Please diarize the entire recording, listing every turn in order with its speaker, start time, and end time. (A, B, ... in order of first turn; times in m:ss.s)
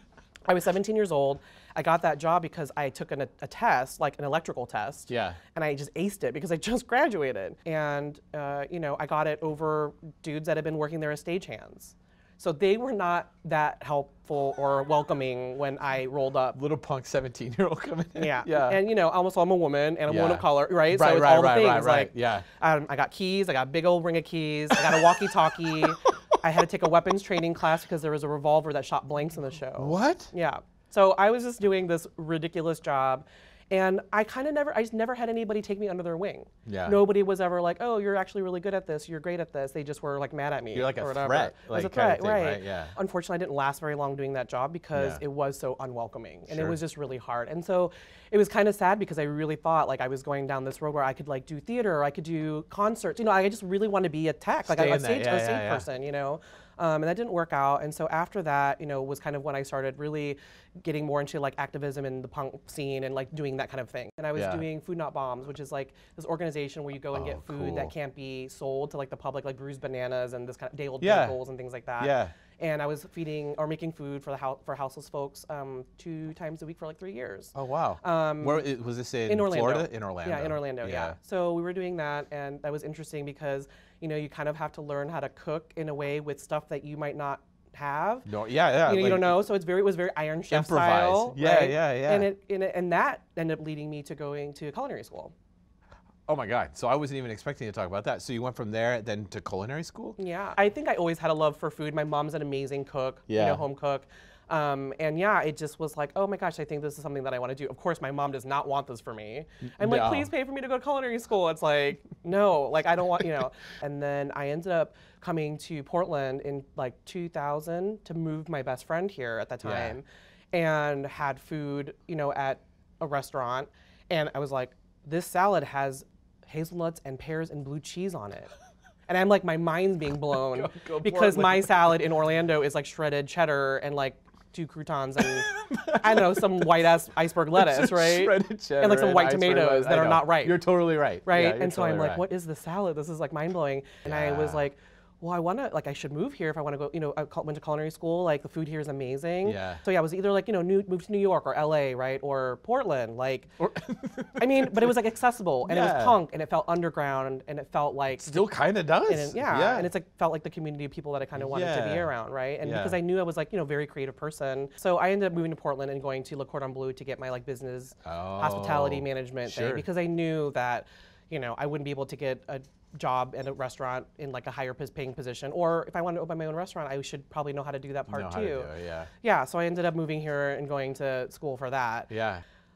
0:00.5-0:16.6 A
0:05.1-0:05.4 B
0:16.5-0:18.8 B
0:18.2-1:18.7 A
0:20.1-0:22.4 B
0:25.8-0:26.1 B
0:29.8-0:30.3 B
0:36.6-0:37.0 B
0:40.7-0:42.9 B
0:44.9-0:45.2 B
0:46.5-0:46.8 B
0:54.6-0:55.8 B
1:04.3-1:04.6 B
1:07.1-1:07.9 B
1:11.0-1:11.4 B
1:12.0-1:12.3 B
1:17.5-1:21.2 B
1:19.2-1:28.3 A
1:28.2-1:29.4 B
1:28.8-1:35.3 A
1:30.5-1:32.3 B
1:36.3-1:40.2 B
1:40.2-2:08.5 A
1:43.3-1:43.6 B
1:49.8-1:50.3 B
1:59.6-2:00.0 B
2:09.1-2:15.5 A
2:10.3-2:12.0 B
2:15.5-2:16.8 B
2:16.0-2:20.6 A
2:17.5-2:22.2 B
2:21.2-2:33.5 A
2:24.0-2:24.6 B
2:29.4-2:29.8 B
2:33.6-2:34.9 B
2:34.4-2:38.4 A
2:35.6-2:36.2 B
2:38.1-2:39.9 B
2:39.1-2:58.7 A
2:41.4-2:42.1 B
2:42.6-2:43.0 B
2:48.0-2:49.8 B
2:58.1-2:59.1 B
2:59.2-3:02.1 A
3:02.1-3:02.4 B